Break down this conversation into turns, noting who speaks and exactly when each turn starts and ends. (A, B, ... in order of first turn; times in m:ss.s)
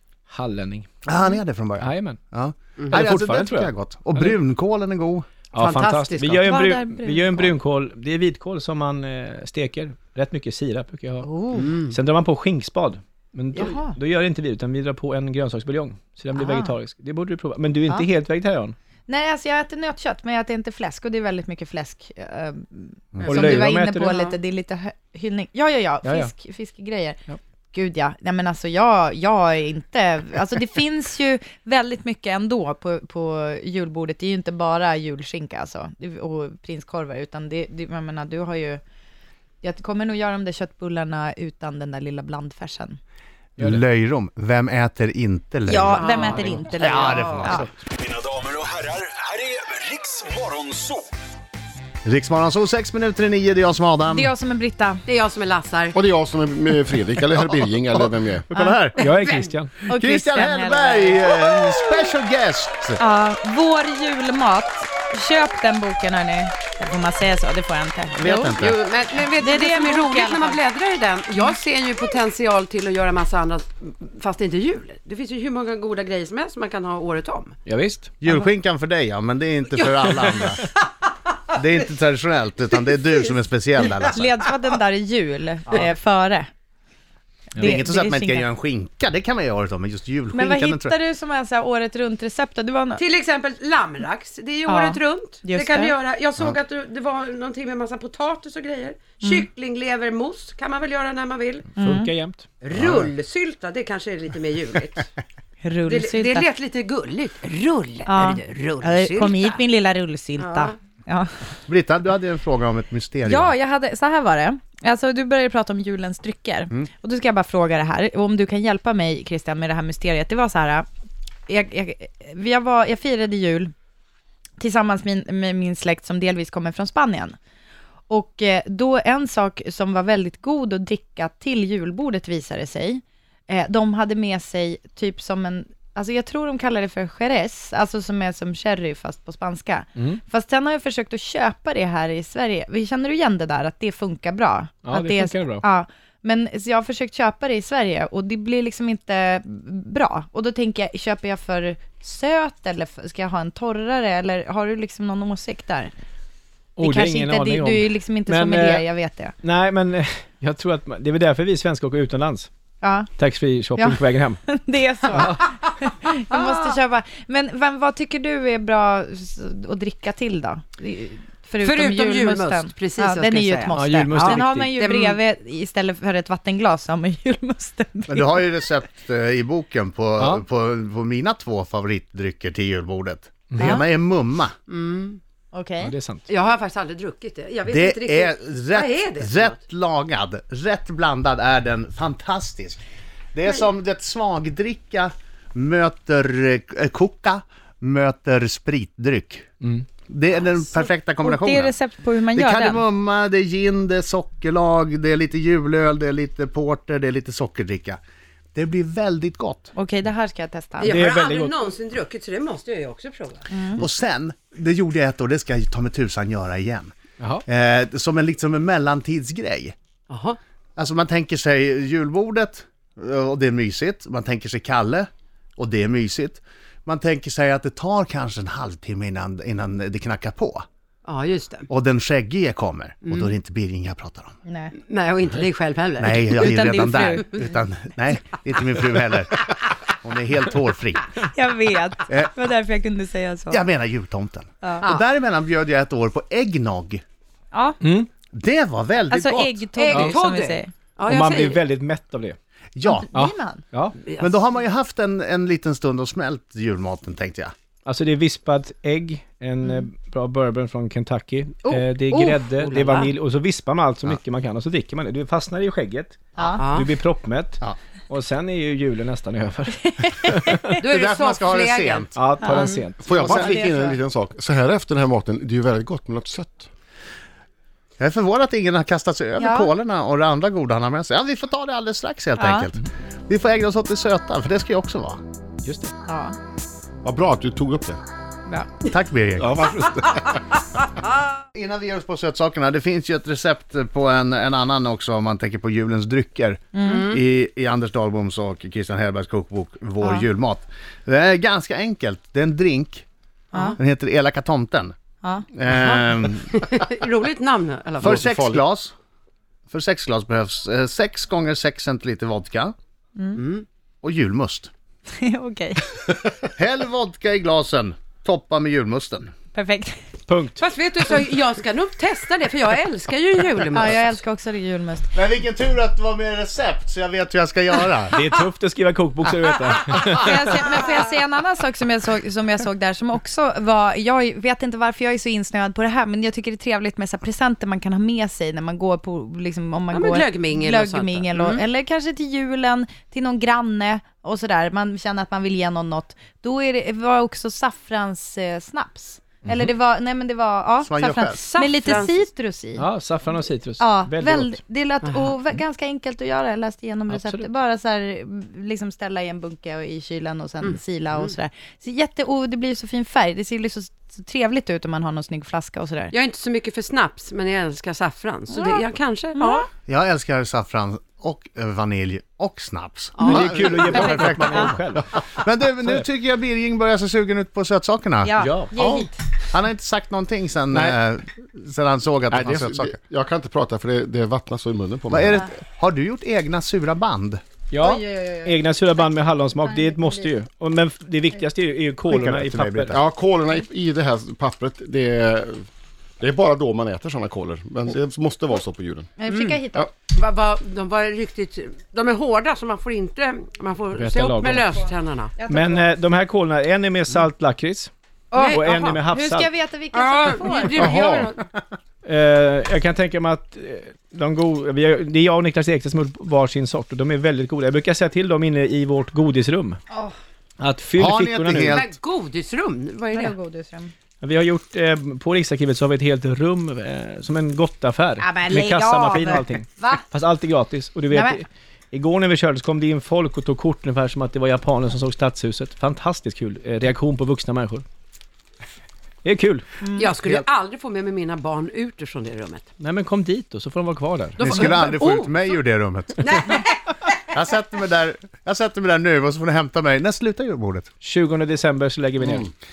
0:00.3-0:00.9 A
0:01.0-0:05.3 B
0:01.8-0:02.2 A
0:02.8-0:03.0 C
0:02.9-0:04.3 A
0:05.5-0:06.4 C
0:05.5-0:11.3 A
0:06.4-0:07.5 D
0:11.2-0:11.7 D
0:11.5-0:11.9 C
0:11.9-0:18.7 A
0:13.5-0:14.0 D
0:16.3-0:16.8 D
0:19.1-0:27.2 D
0:23.1-0:23.7 B
0:23.2-0:24.2 A
0:26.0-0:26.3 A
0:27.7-0:38.8 D
0:39.6-0:43.0 D
0:43.6-0:47.7 B
0:45.7-0:47.7 D
0:45.9-0:47.6 C
0:48.4-0:50.8 E
0:52.0-0:54.3 B
0:54.1-0:55.0 D
0:55.0-0:56.0 C
0:55.9-0:58.4 F
0:57.5-0:59.0 B
0:58.5-0:58.8 D
0:59.0-0:59.7 A
0:59.0-0:59.5 C
0:59.9-1:01.2 D
0:59.9-1:03.0 B
1:03.0-1:08.5 D
1:08.1-1:08.8 B
1:08.6-1:17.6 C
1:09.4-1:10.6 D
1:17.6-1:18.1 A
1:18.2-1:20.6 B
1:19.8-1:20.7 C
1:21.5-1:24.2 B
1:24.1-1:26.5 D
1:27.6-1:28.5 D
1:27.6-1:31.0 B
1:30.3-1:33.0 D
1:33.0-1:41.7 C
1:34.7-1:35.9 D
1:41.8-1:42.1 D
1:41.8-1:42.4 A
1:42.6-1:45.1 C
1:42.7-1:43.1 B
1:45.6-1:46.4 D
1:45.9-1:49.6 C
1:48.0-1:51.5 D
1:50.4-1:50.7 C
1:51.7-1:53.5 B
1:53.2-2:00.9 D
2:01.5-2:03.7 D
2:04.6-2:07.4 D
2:08.1-2:35.9 D
2:24.8-2:25.6 A
2:36.8-2:38.8 A
2:36.8-2:39.3 D
2:39.4-2:42.5 A
2:42.8-2:43.1 D
2:43.2-2:44.4 A
2:43.8-2:58.6 D
2:45.1-2:45.4 A
2:51.6-2:55.2 C
2:53.7-2:54.7 A
2:58.1-3:04.5 B
3:03.5-3:03.8 A
3:04.7-3:05.2 C
3:05.5-3:05.9 D
3:05.8-3:06.2 A
3:06.3-3:09.6 C
3:07.7-3:12.8 B
3:13.3-3:19.5 B
3:20.1-3:21.7 B
3:21.2-3:22.8 D
3:22.3-3:28.0 B
3:28.5-3:29.7 B
3:29.7-3:31.0 D
3:30.8-3:33.5 C
3:30.8-3:31.6 A
3:33.5-3:33.8 D
3:33.8-3:36.9 B
3:37.4-3:39.7 B
3:40.1-3:40.4 C
3:40.8-3:50.6 B
3:51.0-3:51.7 C
3:51.7-3:54.4 B
3:53.0-3:53.3 C
3:54.4-3:54.7 D
3:54.8-3:56.6 C
3:56.0-3:59.5 B
3:56.3-3:57.4 D
4:00.0-4:01.0 B
4:01.2-4:03.6 D
4:03.5-4:07.0 B
4:07.5-4:07.8 D
4:07.8-4:08.1 A
4:08.3-4:09.6 B
4:09.1-4:10.7 D
4:09.8-4:11.6 C
4:11.0-4:12.4 A
4:12.8-4:13.1 B
4:12.8-4:13.6 D
4:13.1-4:13.9 A
4:14.0-4:14.4 C
4:14.2-4:17.5 B
4:17.8-4:30.6 A
4:21.7-4:22.2 D
4:22.1-4:23.1 C
4:26.4-4:26.6 D
4:26.6-4:26.9 C
4:30.3-4:30.8 D
4:30.8-4:32.8 C
4:30.8-4:32.1 B
4:32.1-4:33.1 A
4:32.4-4:34.0 D
4:33.0-4:36.7 F
4:33.1-4:33.6 B
4:38.0-4:45.2 B
4:39.4-4:39.7 D
4:42.4-4:42.7 D
4:45.6-4:45.9 A
4:46.0-4:46.4 D
4:47.0-4:48.0 F
4:48.8-4:49.6 B
4:49.4-4:50.4 F
4:51.5-5:03.0 B
4:56.7-4:57.0 D
4:56.8-4:57.2 C
5:03.8-5:04.9 B
5:05.5-5:06.5 B
5:05.7-5:08.2 C
5:08.0-5:08.9 B
5:08.0-5:08.6 F
5:09.7-5:12.7 B
5:13.3-5:13.6 C
5:14.0-5:14.7 B
5:15.1-5:16.0 D
5:16.4-5:19.3 B
5:19.5-5:20.0 D
5:20.3-5:20.6 A
5:20.6-5:24.1 C
5:23.7-5:25.1 D
5:25.1-5:28.2 B
5:28.1-5:30.4 A
5:30.1-5:52.8 D
5:39.9-5:41.6 C
5:50.8-5:51.4 B
5:51.5-5:52.3 C
5:52.8-5:54.6 A
5:53.8-6:06.1 D
5:55.0-5:55.3 C
5:57.1-5:57.5 A
6:00.6-6:01.3 C
6:06.1-6:09.6 C
6:08.5-6:09.7 D
6:09.9-6:23.0 B
6:13.2-6:14.0 C
6:13.2-6:15.0 A
6:18.2-6:19.1 D
6:18.4-6:18.7 A
6:22.3-6:25.4 F
6:25.1-6:27.4 B
6:27.7-6:33.0 A
6:27.8-6:28.6 D
6:29.6-6:30.3 D
6:32.1-6:33.0 B
6:32.9-6:35.7 F
6:36.2-6:39.1 F
6:39.2-6:39.9 D
6:40.1-6:45.3 C
6:43.9-6:44.6 A
6:45.4-6:45.7 D
6:45.5-6:49.5 A
6:48.3-6:51.0 D
6:48.3-6:48.6 C
6:49.9-6:51.4 C
6:50.8-6:51.4 B
6:50.8-6:51.2 F
6:52.0-6:59.8 A
6:59.9-7:00.2 D
7:00.6-7:01.8 A
7:01.0-7:01.8 B
7:01.7-7:03.3 C
7:03.1-7:03.9 D
7:04.2-7:17.8 A
7:08.2-7:10.0 D
7:11.1-7:11.4 D
7:19.2-7:19.6 A
7:19.8-7:20.1 D
7:20.0-7:22.7 C
7:22.8-7:24.6 A
7:24.4-7:25.3 C
7:24.4-7:26.4 B
7:26.2-7:27.1 C
7:27.3-7:30.9 B
7:31.0-7:32.5 A